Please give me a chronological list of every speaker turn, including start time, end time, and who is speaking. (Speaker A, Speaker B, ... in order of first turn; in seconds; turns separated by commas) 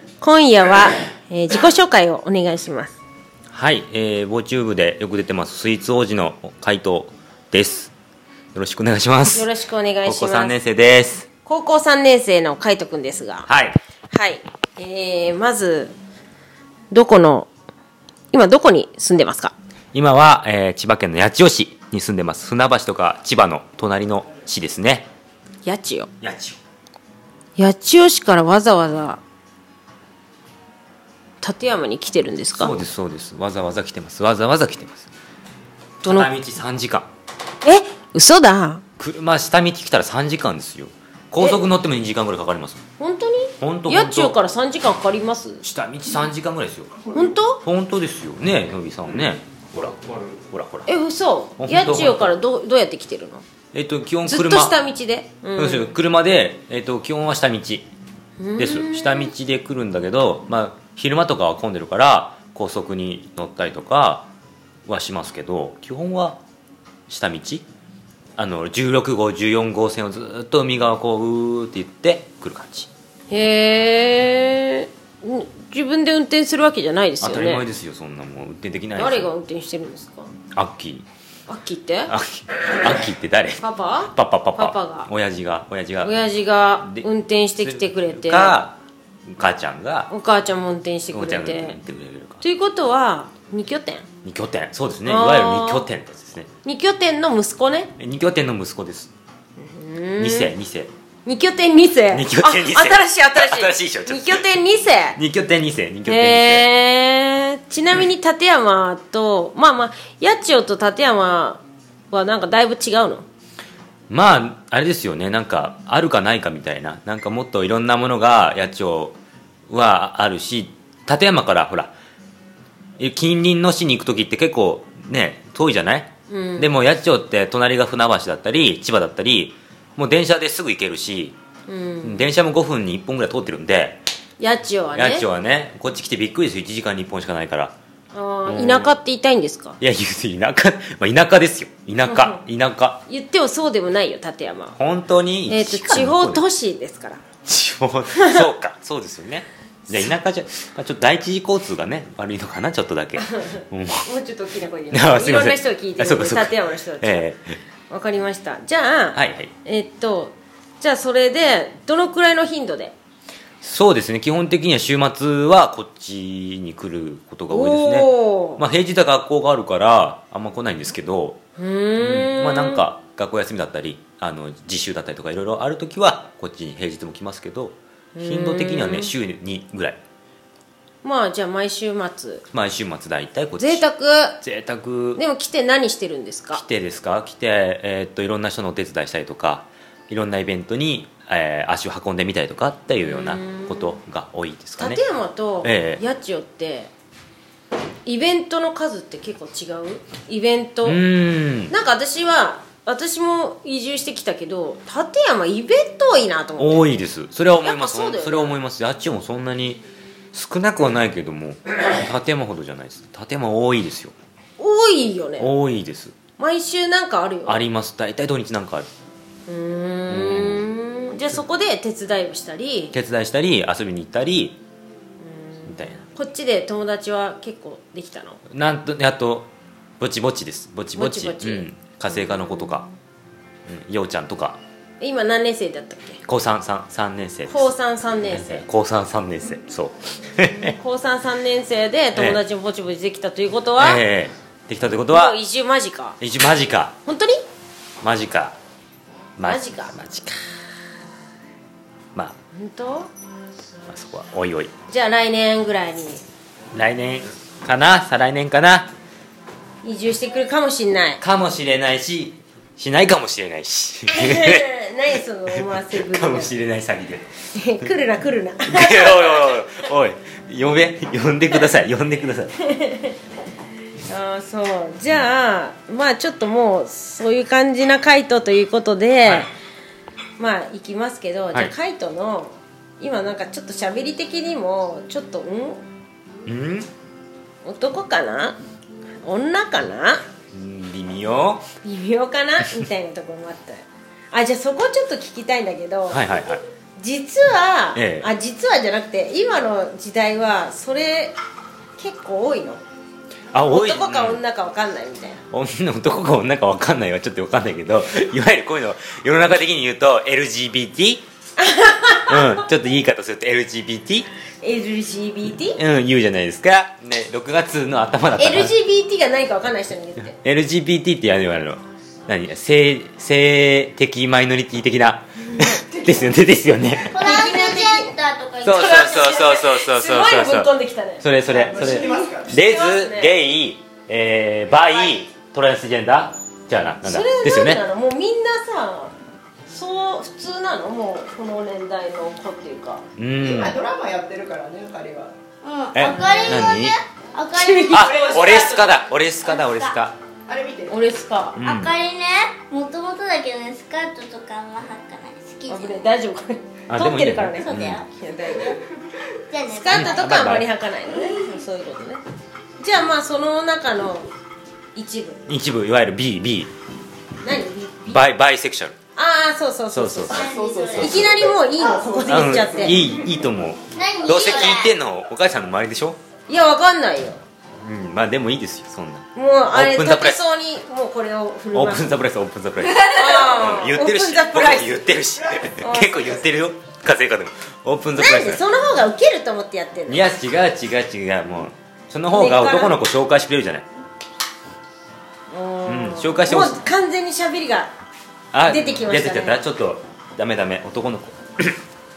Speaker A: 0.2-3.0, Speaker B: 3.5-7.9, Speaker B: 8.5-9.5, Speaker A: 9.3-10.6, Speaker B: 10.1-11.3, Speaker A: 11.4-13.5, Speaker B: 13.5-13.8, Speaker A: 14.1-15.9, Speaker A: 16.9-17.5, Speaker A: 18.3-19.5, Speaker B: 19.9-25.1, Speaker A: 25.6-26.1, Speaker B: 26.2-26.6, Speaker A: 27.6-29.2, Speaker A: 31.4-32.8, Speaker B: 32.6-35.1, Speaker B: 36.0-37.1, Speaker A: 36.0-36.3, Speaker A: 37.6-38.8, Speaker B: 39.0-42.8, Speaker A: 43.0-45.6, Speaker B: 43.6-44.4, Speaker B: 45.6-46.9, Speaker A: 47.1-47.6, Speaker B: 47.6-50.9, Speaker A: 50.9-53.4, Speaker B: 51.6-52.3, Speaker B: 53.7-54.8, Speaker A: 54.3-55.9, Speaker B: 55.6-57.9, Speaker A: 58.4-59.3, Speaker B: 58.6-64.3, Speaker B: 64.9-66.4, Speaker B: 67.1-67.7, Speaker B: 68.4-72.9, Speaker A: 73.3-77.7, Speaker B: 77.2-79.3, Speaker A: 79.0-80.3, Speaker B: 80.5-81.0, Speaker A: 81.5-82.1, Speaker B: 82.1-86.2, Speaker A: 83.6-85.1, Speaker A: 86.0-88.6, Speaker B: 87.6-88.8, Speaker B: 89.3-90.1, Speaker A: 90.1-91.8, Speaker B: 91.1-92.4, Speaker A: 92.4-94.1, Speaker B: 94.2-96.5, Speaker A: 95.0-95.8, Speaker A: 96.6-97.9, Speaker B: 98.0-99.1, Speaker A: 99.6-100.5, Speaker B: 100.2-100.9, Speaker A: 101.3-105.2, Speaker B: 102.1-104.4, Speaker B: 105.2-106.7, Speaker A: 106.1-113.2, Speaker B: 114.1-119.2, Speaker B: 119.7-121.9, Speaker B: 123.0-131.4, Speaker A: 126.3-126.7, Speaker A: 131.7-132.3, Speaker B: 132.0-134.0, Speaker A: 134.4-135.3, Speaker B: 135.0-137.7, Speaker A: 138.1-139.8, Speaker B: 138.5-139.0, Speaker B: 139.8-143.0, Speaker A: 142.1-142.4, Speaker A: 143.1-144.8, Speaker B: 144.8-146.4, Speaker A: 145.5-147.2, Speaker B: 147.4-154.1, Speaker A: 148.2-148.5, Speaker A: 153.2-157.2, Speaker B: 154.9-157.6, Speaker A: 157.9-162.9, Speaker B: 159.2-159.5, Speaker B: 163.6-171.4, Speaker A: 167.5-168.6, Speaker A: 171.6-172.8, Speaker B: 172.0-180.0, Speaker A: 178.2-179.1, Speaker A: 181.0-182.4, Speaker B: 182.5-183.8, Speaker A: 183.6-184.4, Speaker B: 184.4-185.2, Speaker A: 185.2-186.6, Speaker B: 186.5-195.0, Speaker A: 193.0-194.0, Speaker A: 194.8-196.9, Speaker B: 195.6-196.0, Speaker A: 198.1-201.0, Speaker B: 200.8-201.7, Speaker A: 201.7-207.0, Speaker B: 206.6-214.1, Speaker A: 207.6-208.6, Speaker A: 214.6-215.5, Speaker B: 215.4-216.2, Speaker A: 216.4-217.6, Speaker B: 217.5-218.9, Speaker A: 219.5-222.9, Speaker B: 220.1-220.7, Speaker B: 222.9-224.6, Speaker A: 225.2-228.4, Speaker B: 225.7-226.0, Speaker B: 228.5-229.5, Speaker B: 230.0-232.9, Speaker A: 231.0-232.9, Speaker B: 233.7-234.6, Speaker A: 235.0-236.2, Speaker B: 236.2-237.7, Speaker A: 237.5-238.7, Speaker B: 238.2-240.8, Speaker A: 240.4-244.0, Speaker B: 242.2-242.4, Speaker B: 243.8-245.4, Speaker A: 245.1-246.2, Speaker B: 246.2-246.9, Speaker A: 247.1-247.4, Speaker B: 248.0-248.6, Speaker B: 249.4-250.3, Speaker A: 249.4-250.1, Speaker A: 252.6-253.1, Speaker B: 253.9-254.7, Speaker A: 254.9-256.2, Speaker B: 256.7-258.9, Speaker A: 259.8-261.2, Speaker B: 261.2-264.7, Speaker A: 264.1-266.5, Speaker B: 265.5-267.3, Speaker A: 267.5-269.6, Speaker B: 268.7-272.5, Speaker A: 272.6-273.2, Speaker A: 274.1-279.5, Speaker A: 280.4-285.8, Speaker B: 286.5-286.9, Speaker A: 287.6-288.6, Speaker A: 289.2-290.2, Speaker B: 290.5-291.7, Speaker A: 291.8-296.2, Speaker B: 296.1-296.6, Speaker A: 297.0-301.4, Speaker B: 297.9-298.3, Speaker A: 302.0-302.8, Speaker B: 303.5-304.4, Speaker A: 303.7-305.4, Speaker B: 305.5-311.2, Speaker A: 311.6-312.6, Speaker B: 312.3-314.3, Speaker A: 314.6-315.8, Speaker B: 315.8-318.7, Speaker A: 318.4-320.3, Speaker B: 320.4-327.2, Speaker C: 327.1-329.5, Speaker A: 327.1-328.1, Speaker B: 328.6-337.8, Speaker A: 328.6-331.2, Speaker D: 331.5-332.5, Speaker A: 331.8-333.4, Speaker A: 337.0-339.1, Speaker A: 339.7-343.0, Speaker B: 343.2-343.8, Speaker D: 343.4-345.3, Speaker C: 345.6-348.2, Speaker B: 345.9-347.0, Speaker A: 346.0-346.7, Speaker A: 347.5-348.1, Speaker D: 347.9-349.1, Speaker B: 347.9-350.1, Speaker C: 349.6-349.9, Speaker D: 350.5-351.0, Speaker A: 350.9-351.6, Speaker B: 351.6-351.9, Speaker C: 351.6-356.1, Speaker A: 355.7-358.8, Speaker B: 356.9-358.0, Speaker C: 357.6-358.1, Speaker C: 359.5-360.3, Speaker A: 359.7-362.2, Speaker B: 359.9-360.7, Speaker A: 362.8-364.3, Speaker A: 364.9-365.4, Speaker B: 365.5-366.7, Speaker A: 367.4-368.3, Speaker B: 368.1-368.9, Speaker A: 369.2-373.0, Speaker B: 369.9-371.3, Speaker C: 370.3-371.2, Speaker D: 370.4-373.1, Speaker B: 372.3-376.2, Speaker C: 373.9-374.9, Speaker A: 376.5-377.4, Speaker B: 377.8-380.4, Speaker A: 379.4-382.1, Speaker B: 381.7-388.6, Speaker A: 383.0-385.1, Speaker A: 385.8-386.5, Speaker A: 388.2-390.3, Speaker B: 390.1-393.9, Speaker A: 392.3-393.0, Speaker A: 395.5-397.9, Speaker B: 395.9-396.8, Speaker B: 398.5-401.8, Speaker A: 398.6-399.6